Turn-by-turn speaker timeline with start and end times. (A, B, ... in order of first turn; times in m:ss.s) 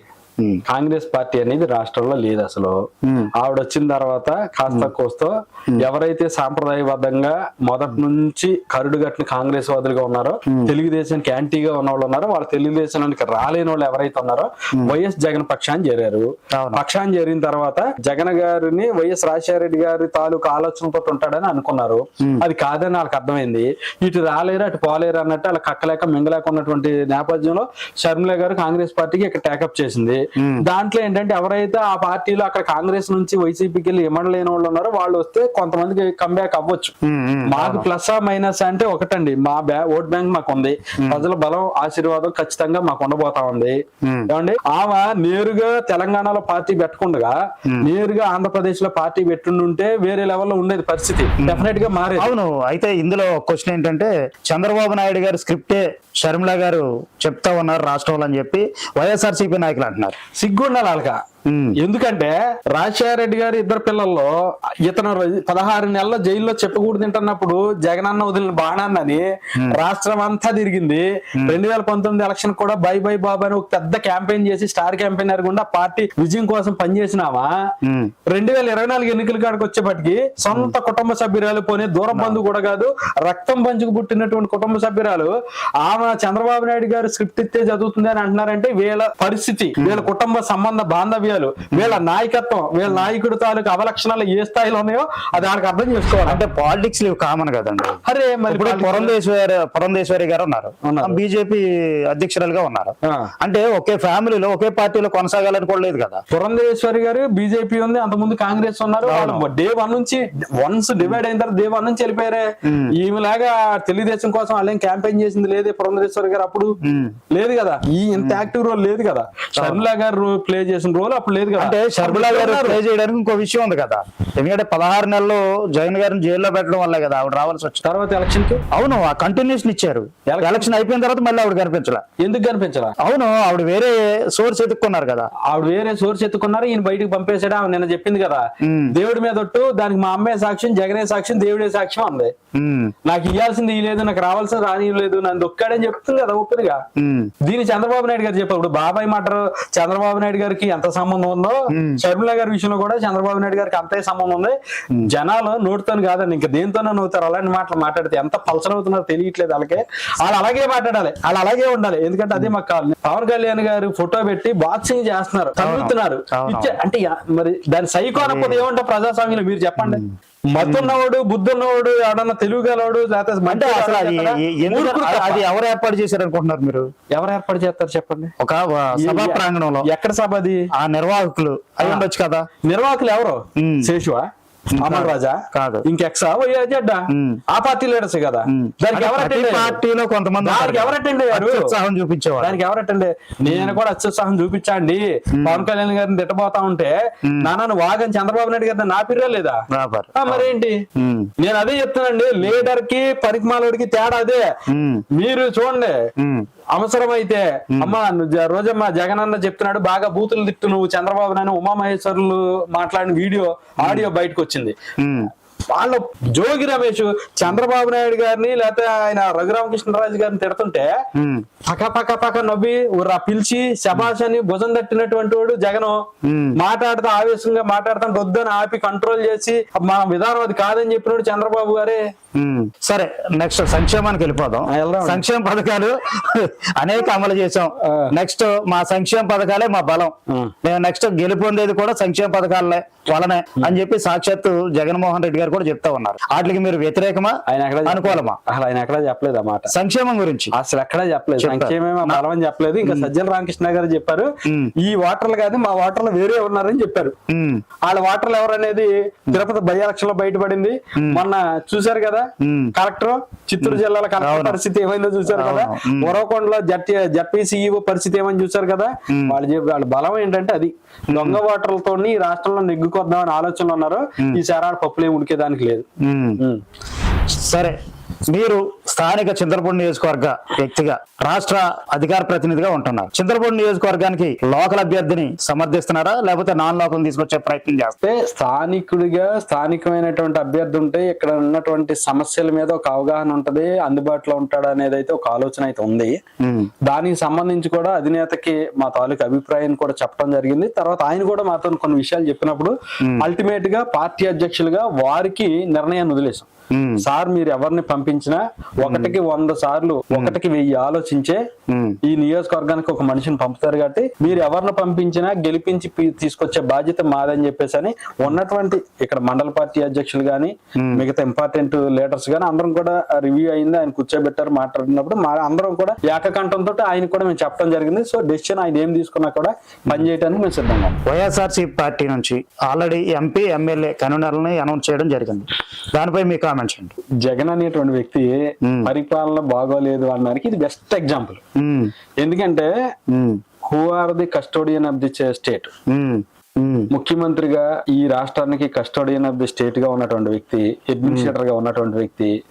0:00.7-0:02.8 A
0:03.4-0:36.9 A
0:16.6-0:16.8 B
0:30.4-0:30.6 B
0:37.0-0:37.9 B
0:37.5-0:52.3 A
0:44.0-0:44.3 B
0:51.4-1:00.2 B
1:00.4-1:01.2 A
1:01.5-1:01.8 B
1:01.8-1:04.3 A
1:04.8-1:17.5 A
1:17.8-1:18.1 B
1:18.3-1:36.4 A
1:22.1-1:22.4 B
1:29.8-1:30.1 B
1:31.7-1:32.0 B
1:36.3-1:46.2 B
1:38.0-1:39.2 A
1:40.8-1:41.2 A
1:43.0-1:43.3 A
1:46.3-1:56.7 A
1:49.1-1:49.5 B
1:52.6-1:52.9 B
1:56.8-1:57.2 B
1:57.3-2:02.8 A
1:58.2-1:58.5 B
1:59.6-1:59.9 B
2:01.6-2:07.8 B
2:07.8-2:08.6 A
2:08.7-2:12.0 B
2:10.3-2:10.7 A
2:12.2-2:13.0 A
2:13.0-2:15.3 B
2:15.5-2:22.3 A
2:18.6-2:18.9 B
2:22.6-2:22.9 B
2:23.0-2:26.8 A
2:27.0-2:27.3 B
2:27.4-2:55.5 A
2:31.7-2:32.0 B
2:45.6-2:46.8 B
2:48.1-2:48.6 B
2:49.8-2:51.0 B
2:53.5-2:56.9 B
2:57.1-2:58.3 A
2:58.4-2:59.9 B
2:59.0-3:00.7 A
3:00.7-3:02.5 B
3:01.8-3:02.1 A
3:02.6-3:04.3 A
3:03.6-3:03.9 B
3:04.8-3:05.8 B
3:04.8-3:09.8 A
3:07.1-3:07.4 B
3:08.5-3:12.6 B
3:10.4-3:11.7 A
3:12.4-3:19.6 A
3:13.4-3:13.8 B
3:15.4-3:15.7 B
3:19.7-3:21.3 B
3:20.2-3:20.8 A
3:21.4-3:24.6 A
3:24.7-3:25.0 B
3:25.1-3:26.0 A
3:26.2-3:26.5 B
3:26.8-3:34.8 A
3:33.8-3:34.1 B
3:35.0-3:35.3 B
3:35.7-3:41.0 A
3:41.2-3:41.5 B
3:41.7-3:46.0 A
3:46.2-3:46.6 B
3:46.6-3:52.0 A
3:52.4-4:08.4 B
3:54.7-3:55.2 A
3:57.8-3:58.1 A
4:07.5-4:09.7 A
4:09.7-4:10.5 B
4:10.5-4:17.2 A
4:11.4-4:12.2 B
4:12.8-4:13.1 B
4:14.4-4:14.7 B
4:17.3-4:17.6 B
4:17.8-4:35.9 A
4:21.0-4:21.2 B
4:22.4-4:22.7 B
4:23.6-4:24.6 B
4:25.3-4:26.2 B
4:29.1-4:29.4 B
4:31.1-4:31.4 B
4:36.0-4:36.4 B
4:37.4-4:48.0 B
4:48.0-4:56.2 A
4:56.4-4:56.7 B
4:56.8-5:06.5 A
5:06.7-5:07.0 B
5:07.0-5:11.4 A
5:08.8-5:09.2 B
5:10.1-5:10.4 B
5:11.7-5:12.0 B
5:12.0-5:31.0 A
5:31.1-5:36.9 B
5:37.2-5:41.4 A
5:41.6-5:41.9 B
5:42.2-5:42.7 A
5:43.1-5:43.4 B
5:43.7-5:45.7 A
5:45.9-5:46.9 B
5:46.9-5:52.3 A
5:51.0-5:51.3 B